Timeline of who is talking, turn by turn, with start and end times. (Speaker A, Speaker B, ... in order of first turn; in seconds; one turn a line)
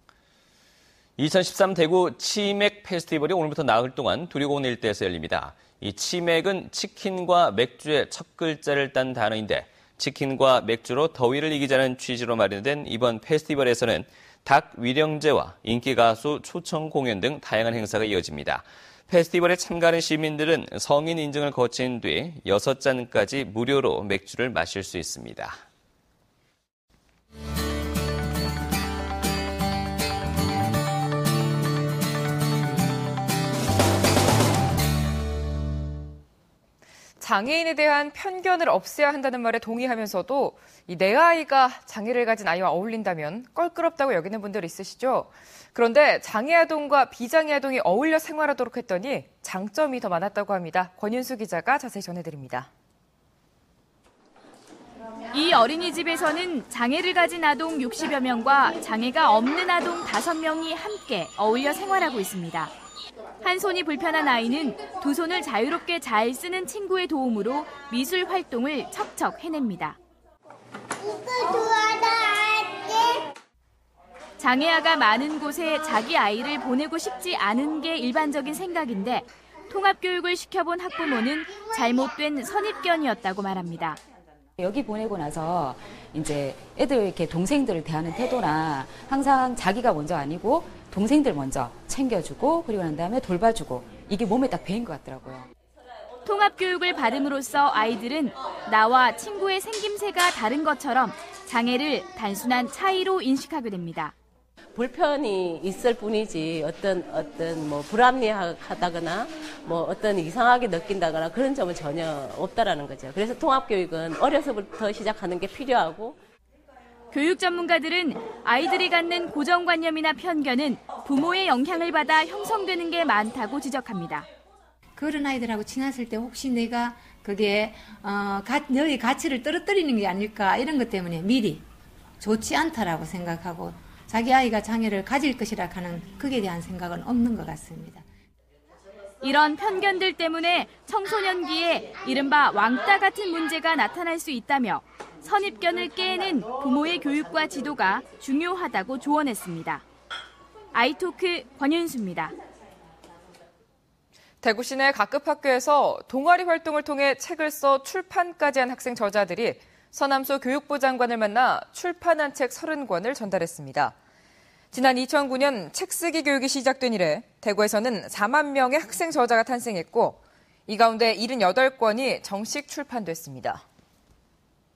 Speaker A: 1.2-25.6
Speaker B: 37.2-52.7
Speaker C: 55.4-56.0
Speaker D: 55.4-62.7
Speaker C: 56.5-57.4
Speaker D: 63.4-70.0
Speaker D: 74.4-79.2
Speaker D: 79.7-84.0
Speaker C: 84.6-95.5
Speaker D: 96.3-104.1
Speaker E: 104.7-116.2
Speaker D: 117.1-124.2
Speaker F: 125.0-131.6
Speaker F: 132.2-138.0
Speaker D: 139.2-149.8
Speaker D: 150.9-152.3
Speaker B: 154.4-163.9
Speaker B: 164.7-173.6